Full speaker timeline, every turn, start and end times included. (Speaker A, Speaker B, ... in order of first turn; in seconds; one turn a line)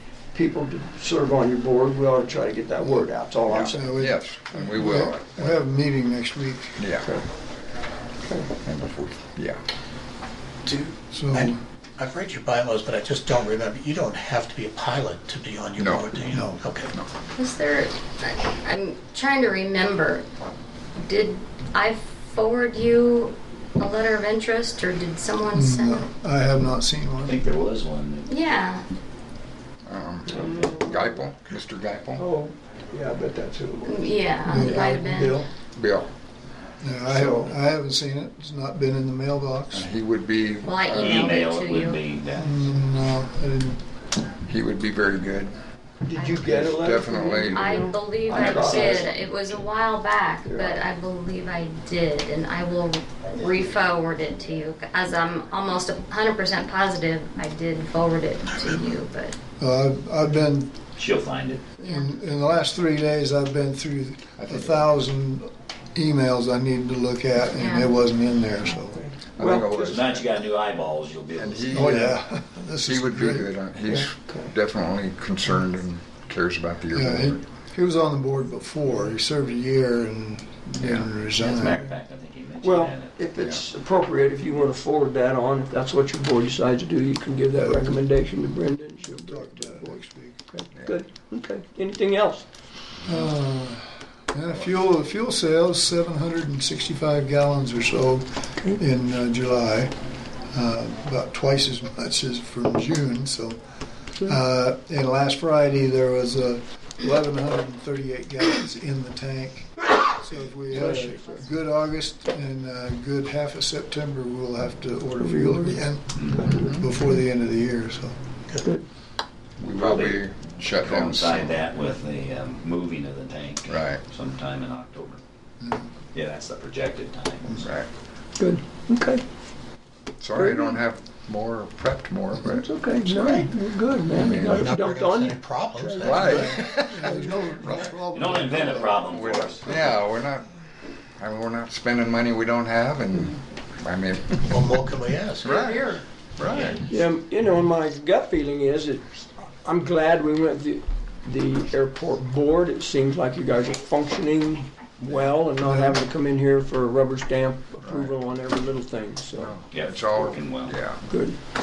Speaker A: 0.3-4.0
Speaker B: 3.5-5.7
Speaker C: 3.7-6.8
Speaker B: 6.8-7.1
Speaker B: 8.6-9.6
Speaker D: 10.7-16.9
Speaker C: 11.1-11.6
Speaker B: 15.8-16.1
Speaker C: 16.3-16.6
Speaker E: 17.4-20.2
Speaker E: 21.0-26.1
Speaker C: 25.5-27.4
Speaker F: 27.2-28.4
Speaker E: 28.3-28.8
Speaker B: 29.8-32.2
Speaker A: 30.3-31.2
Speaker A: 32.2-35.5
Speaker E: 33.8-35.4
Speaker C: 34.5-35.1
Speaker B: 34.6-34.9
Speaker B: 35.7-36.1
Speaker C: 36.8-39.9
Speaker A: 37.1-37.5
Speaker B: 39.8-41.2
Speaker E: 40.6-42.0
Speaker F: 41.0-42.6
Speaker C: 42.3-43.8
Speaker B: 44.5-45.5
Speaker A: 46.0-49.1
Speaker E: 46.1-59.4
Speaker B: 46.5-47.8
Speaker F: 48.3-49.6
Speaker A: 50.5-50.8
Speaker D: 58.5-59.0
Speaker C: 59.6-60.8
Speaker F: 61.0-61.6
Speaker E: 61.8-62.1
Speaker C: 61.8-69.0
Speaker B: 64.4-64.9
Speaker E: 67.5-67.9
Speaker A: 69.0-70.4
Speaker B: 69.4-70.1
Speaker F: 69.8-72.1
Speaker B: 71.4-72.1
Speaker C: 71.7-73.5
Speaker B: 72.8-77.4
Speaker A: 73.9-74.5
Speaker C: 76.9-81.9
Speaker F: 81.1-83.4
Speaker A: 82.6-92.5
Speaker C: 87.6-87.9
Speaker C: 89.2-90.4
Speaker C: 93.0-99.9
Speaker C: 100.5-103.6
Speaker C: 104.2-118.1
Speaker A: 110.7-111.5
Speaker A: 115.2-115.8
Speaker F: 116.2-116.5
Speaker A: 116.4-116.7
Speaker B: 116.5-116.9
Speaker B: 119.6-121.6
Speaker F: 119.7-125.2
Speaker B: 123.7-124.0
Speaker C: 125.6-125.9
Speaker F: 126.1-127.7
Speaker A: 128.4-129.2
Speaker B: 130.2-132.7
Speaker A: 130.4-130.8
Speaker A: 132.4-136.4
Speaker D: 133.1-133.5
Speaker D: 134.1-136.6
Speaker B: 134.2-134.7
Speaker B: 136.1-137.1
Speaker C: 136.2-139.1
Speaker A: 136.9-137.9
Speaker B: 137.6-137.9
Speaker F: 138.1-140.0
Speaker B: 139.0-140.5
Speaker B: 141.2-144.4
Speaker D: 144.5-145.7
Speaker B: 145.5-145.9
Speaker B: 146.4-146.8
Speaker F: 146.4-146.8
Speaker A: 146.9-149.1
Speaker A: 149.6-159.5
Speaker C: 155.6-156.0
Speaker B: 157.8-158.1
Speaker B: 159.4-161.0
Speaker F: 159.7-160.8
Speaker A: 161.1-161.4